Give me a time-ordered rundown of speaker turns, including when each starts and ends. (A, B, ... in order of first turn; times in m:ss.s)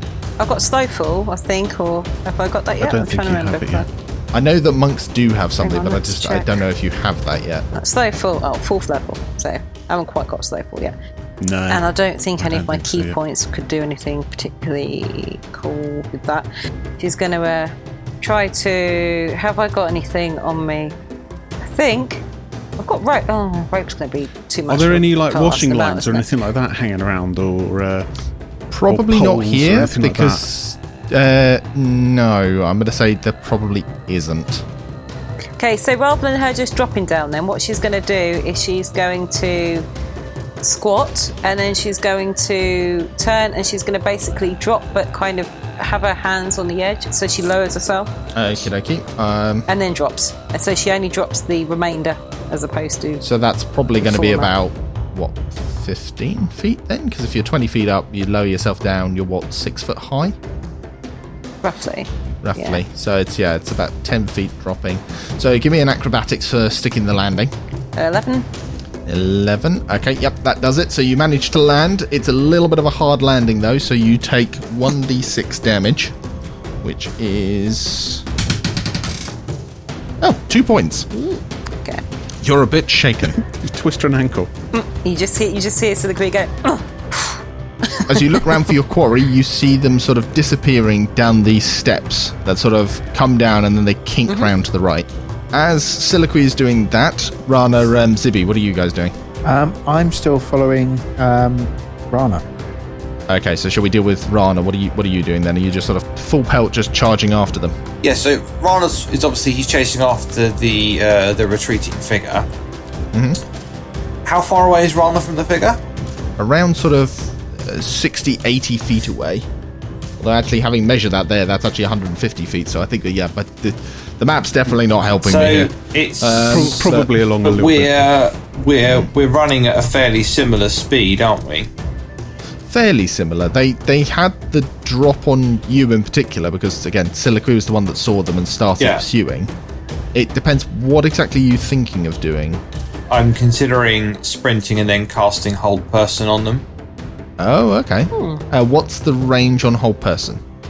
0:00.4-0:03.9 A
0:02.8-0:03.8 B
0:04.3-0:07.7 C
0:05.6-0:06.5 A
0:07.7-0:10.9 A
0:11.4-0:13.2 B
0:11.7-0:16.5 A
0:17.0-0:20.9 A
0:21.6-0:22.2 A
0:22.8-0:26.3 A
0:24.7-0:28.1 B
0:28.7-0:34.6 C
0:28.9-0:30.5 B
0:35.6-0:39.8 A
0:40.6-0:48.1 A
0:48.3-0:49.7 C
0:49.7-0:53.2 A
0:53.2-1:00.4 C
0:54.0-0:54.5 A
1:01.6-1:02.8 A
1:02.4-1:07.5 C
1:08.0-1:08.5 A
1:09.0-1:16.1 C
1:16.8-1:18.2 C
1:20.2-1:21.1 C
1:21.1-1:22.0 A
1:22.4-1:23.4 C
1:23.4-1:24.5 B
1:24.7-1:28.5 A
1:28.0-1:39.1 C
1:39.4-1:42.4 D
1:43.3-1:47.8 C
1:48.0-1:52.5 E
1:53.1-1:53.4 C
1:54.2-1:55.8 E
1:56.4-1:59.4 C
2:00.2-2:07.1 C
2:05.2-2:06.7 E
2:06.4-2:08.0 B
2:07.4-2:11.7 E
2:12.7-2:19.5 C
2:18.8-2:19.0 E
2:20.1-2:22.6 C
2:23.1-2:26.6 E
2:27.4-2:30.4 C
2:28.1-2:28.4 A